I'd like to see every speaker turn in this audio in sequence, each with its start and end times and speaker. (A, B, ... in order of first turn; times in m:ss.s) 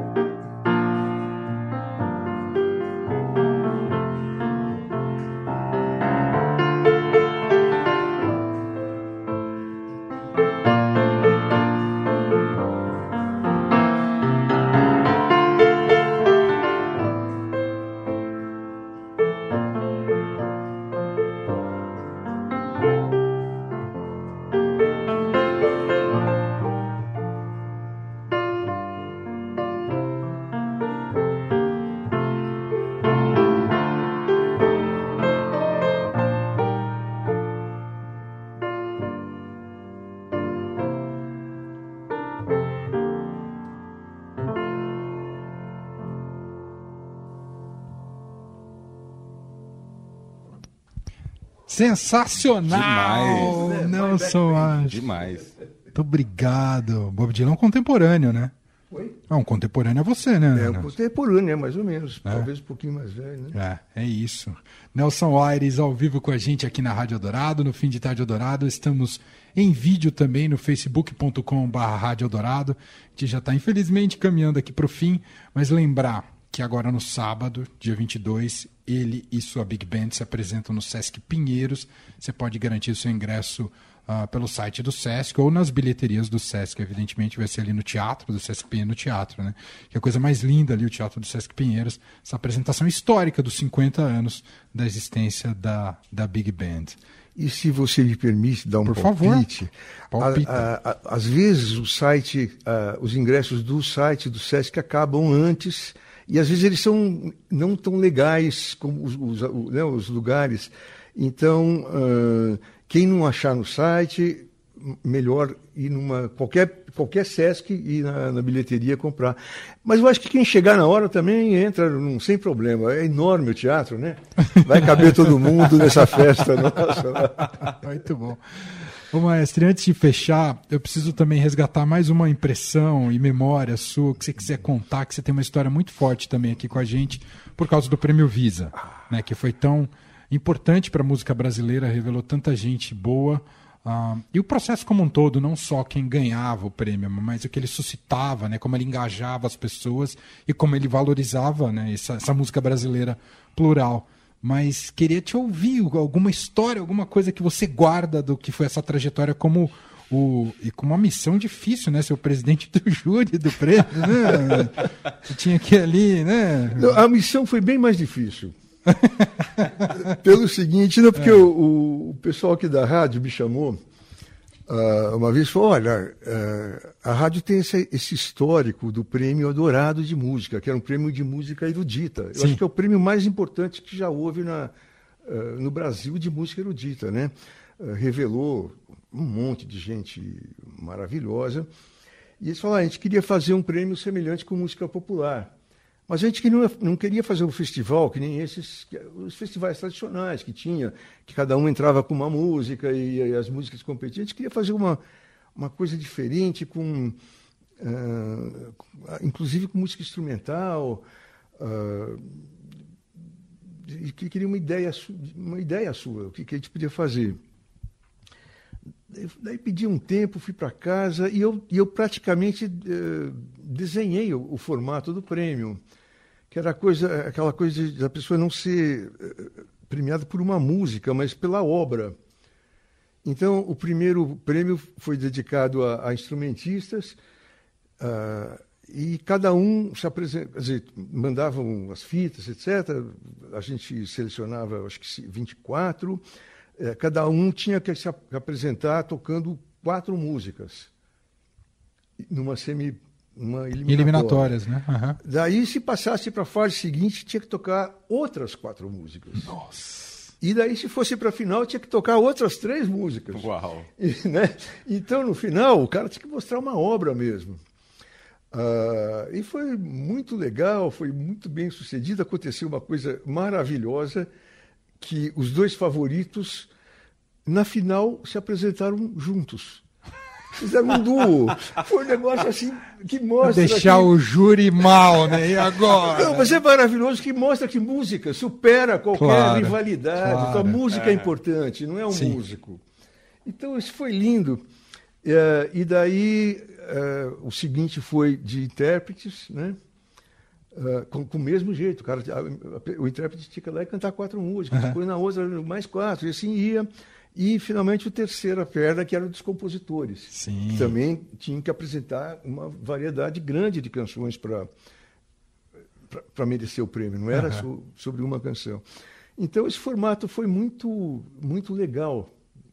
0:51.7-0:55.0 A
0:52.7-0:53.6 B
0:53.1-0:55.2 C
0:54.9-0:55.5 B
0:55.9-0:58.5 A
0:58.9-0:59.2 C
0:59.3-1:00.9 A
1:00.5-1:03.6 C
1:03.5-1:37.0 A
1:37.4-2:07.7 C
1:38.8-1:39.5 A
1:40.1-1:40.7 A
2:04.6-2:06.0 A
2:07.6-2:47.0 A
2:46.8-2:48.5 C
2:48.9-2:50.0 A
2:49.9-2:53.8 C
2:54.7-3:11.7 C
3:12.4-3:15.5 C
3:16.1-3:25.0 C
3:25.6-3:27.2 C
3:27.8-3:31.0 C
3:31.6-3:32.5 C
3:33.7-3:37.4 C
3:39.1-3:45.8 C
3:46.5-3:52.2 C
3:53.2-3:57.2 C
3:58.0-4:06.2 C
4:06.8-4:10.9 C
4:12.2-4:14.6 C
4:13.9-4:15.2 A
4:15.2-4:19.5 C
4:19.5-4:20.2 A
4:20.4-4:27.6 C
4:23.3-4:23.9 B
4:28.5-4:34.3 C
4:35.0-4:36.7 C
4:37.5-4:39.8 C
4:40.6-4:44.1 C
4:43.4-4:46.6 A
4:45.9-4:52.8 C
4:49.1-4:50.8 A
4:50.9-4:51.3 B
4:52.1-4:52.4 A
4:53.4-4:54.6 C
4:55.2-4:59.8 C
5:00.7-5:14.7 C
5:04.7-5:05.0 A
5:10.3-5:11.0 A
5:16.1-5:18.8 C
5:17.3-5:17.7 A
5:19.4-5:22.3 C